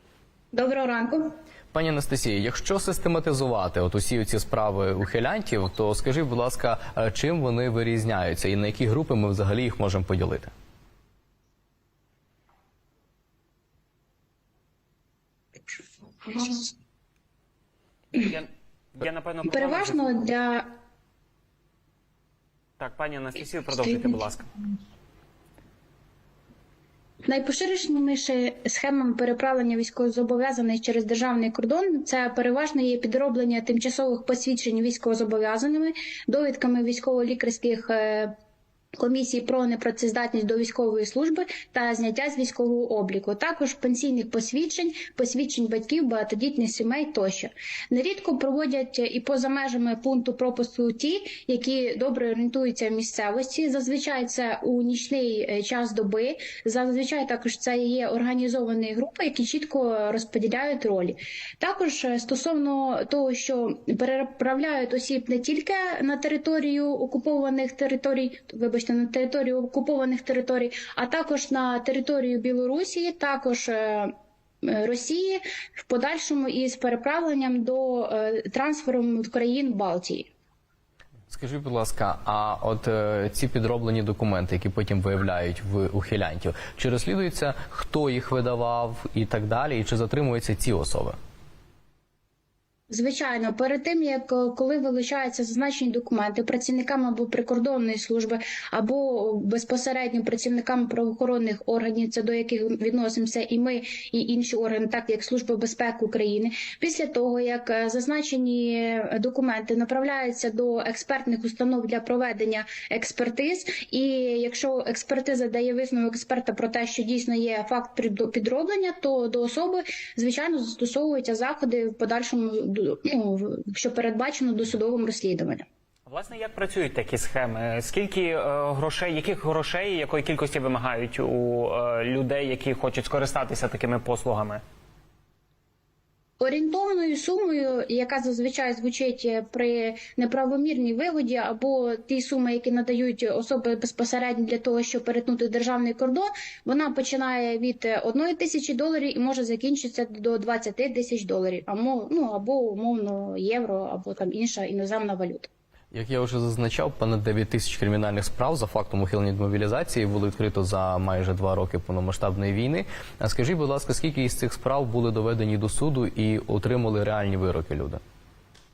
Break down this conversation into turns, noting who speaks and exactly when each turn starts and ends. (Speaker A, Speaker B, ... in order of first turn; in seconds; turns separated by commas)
Speaker A: 0.5-1.3, Speaker B: 1.7-10.5, Speaker A: 16.3-16.6, Speaker C: 18.1-20.1, Speaker A: 19.5-20.7, Speaker C: 22.8-24.5, Speaker A: 27.2-38.3, Speaker A: 39.0-80.3, Speaker B: 81.3-91.2, Speaker A: 92.9-125.7, Speaker C: 126.1-134.6, Speaker A: 136.4-155.5, Speaker B: 155.9-168.0